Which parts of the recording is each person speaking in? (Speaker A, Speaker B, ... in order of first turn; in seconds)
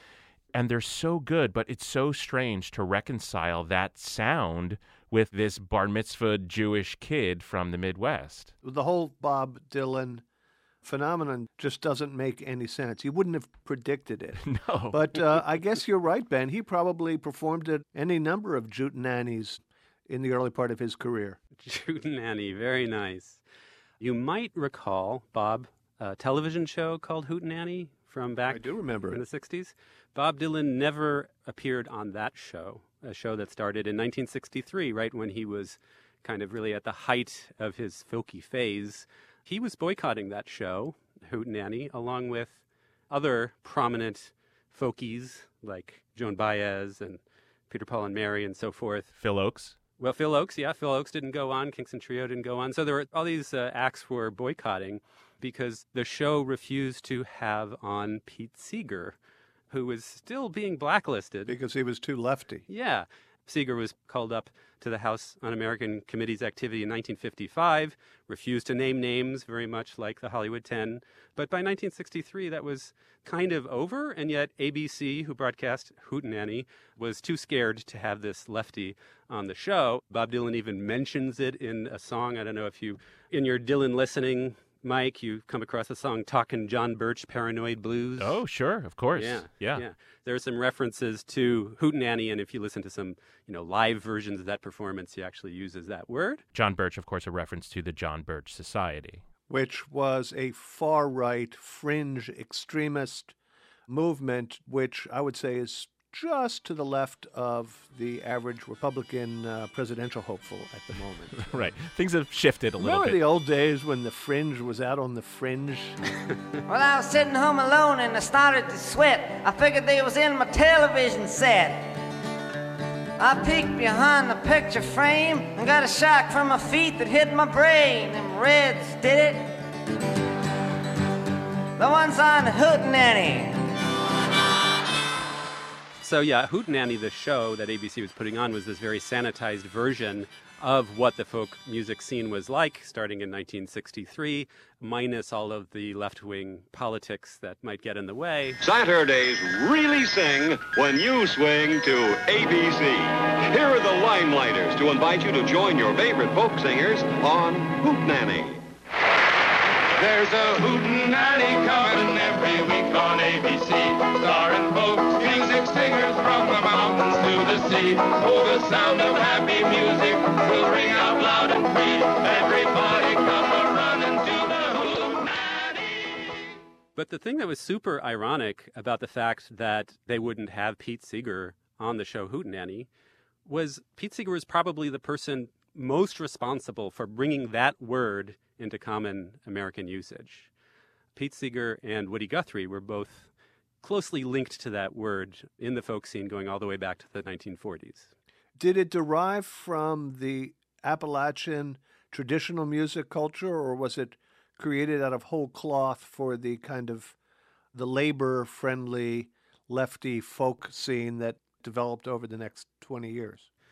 Speaker A: 0.5-8.5, 14.4-15.1, 49.2-49.8, 88.2-89.8, 96.5-99.2, 111.4-113.2
Speaker B: 8.6-10.2, 10.8-21.4, 28.5-29.2, 61.5-62.7, 99.5-103.3, 103.9-111.5, 112.8-116.0, 198.6-207.2, 207.7-213.5
Speaker C: 21.6-23.4, 24.0-49.1, 50.0-59.2, 59.7-61.5, 62.7-88.4, 89.2-96.4, 136.0-148.6, 176.9-182.9, 183.4-190.5, 191.1-193.3, 193.8-198.1
Speaker D: 116.7-122.0, 123.2-129.6, 131.8-133.7
Speaker E: 148.6-158.6
Speaker F: 160.0-176.3